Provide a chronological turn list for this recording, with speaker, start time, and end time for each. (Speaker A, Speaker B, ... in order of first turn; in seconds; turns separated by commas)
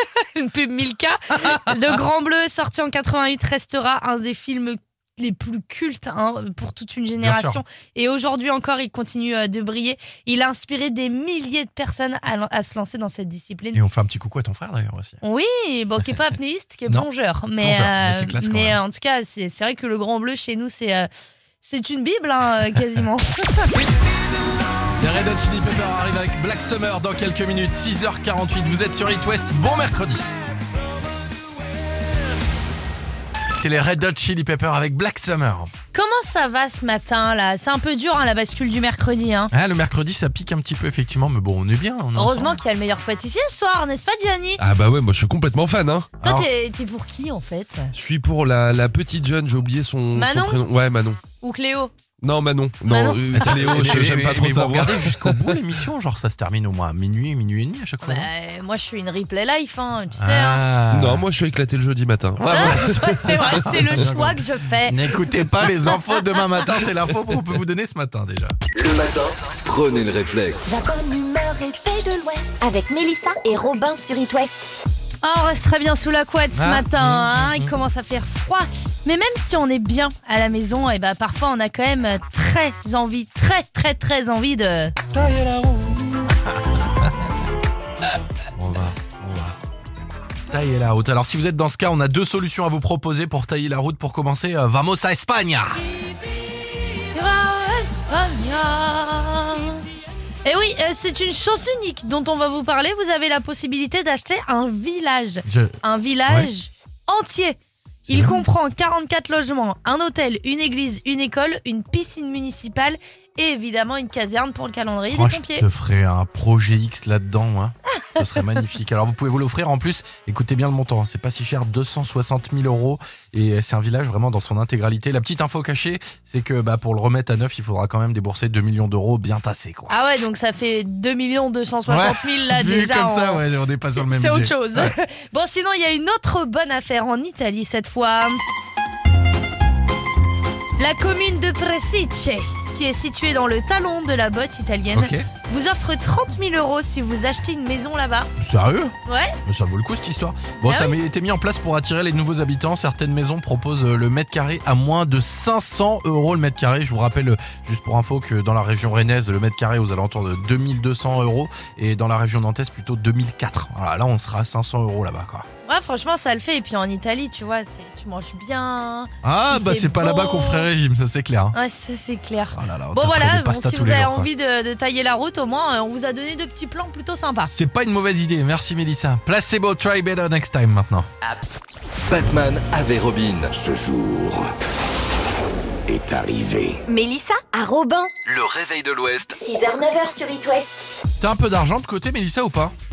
Speaker A: 0.2-13.8, Speaker B: 7.2-7.6, Speaker B: 13.7-15.2, Speaker A: 15.2-21.1, Speaker B: 17.6-18.8, Speaker A: 21.6-23.7, Speaker B: 24.9-30.3, Speaker B: 33.6-35.7, Speaker A: 35.9-39.5, Speaker B: 39.5-42.6, Speaker A: 42.1-44.6, Speaker C: 44.6-46.1, Speaker B: 46.2-46.5, Speaker A: 46.2-47.9, Speaker C: 47.9-51.2, Speaker A: 50.1-50.6, Speaker A: 51.4-51.9, Speaker C: 52.2-55.6, Speaker A: 52.8-54.0, Speaker B: 53.3-58.3, Speaker A: 58.0-60.6, Speaker B: 60.1-61.2, Speaker C: 60.9-63.3, Speaker B: 62.4-68.5, Speaker A: 62.5-65.1, Speaker D: 68.7-70.6, Speaker E: 70.6-74.8, Speaker A: 75.2-85.0, Speaker B: 76.5-77.7, Speaker B: 85.1-87.1, Speaker B: 88.5-89.6, Speaker B: 90.5-95.8, Speaker A: 97.1-99.9, Speaker A: 100.4-107.6, Speaker B: 105.5-106.5, Speaker B: 108.1-108.4, Speaker A: 108.1-115.7, Speaker B: 115.1-129.9, Speaker A: 129.9-133.4, Speaker B: 131.9-134.9, Speaker A: 133.9-138.4, Speaker A: 140.8-148.3, Speaker B: 144.9-145.3, Speaker B: 148.4-148.9, Speaker A: 149.1-149.3, Speaker B: 149.4-165.5, Speaker A: 150.6-150.9, Speaker A: 165.7-170.7, Speaker B: 169.2-171.6, Speaker A: 171.5-177.5, Speaker B: 172.5-174.3, Speaker B: 177.4-181.1, Speaker D: 182.0-183.5, Speaker F: 183.5-184.5, Speaker F: 185.9-186.8, Speaker E: 186.9-188.1, Speaker D: 188.2-189.3, Speaker E: 189.4-190.7, Speaker B: 191.2-192.7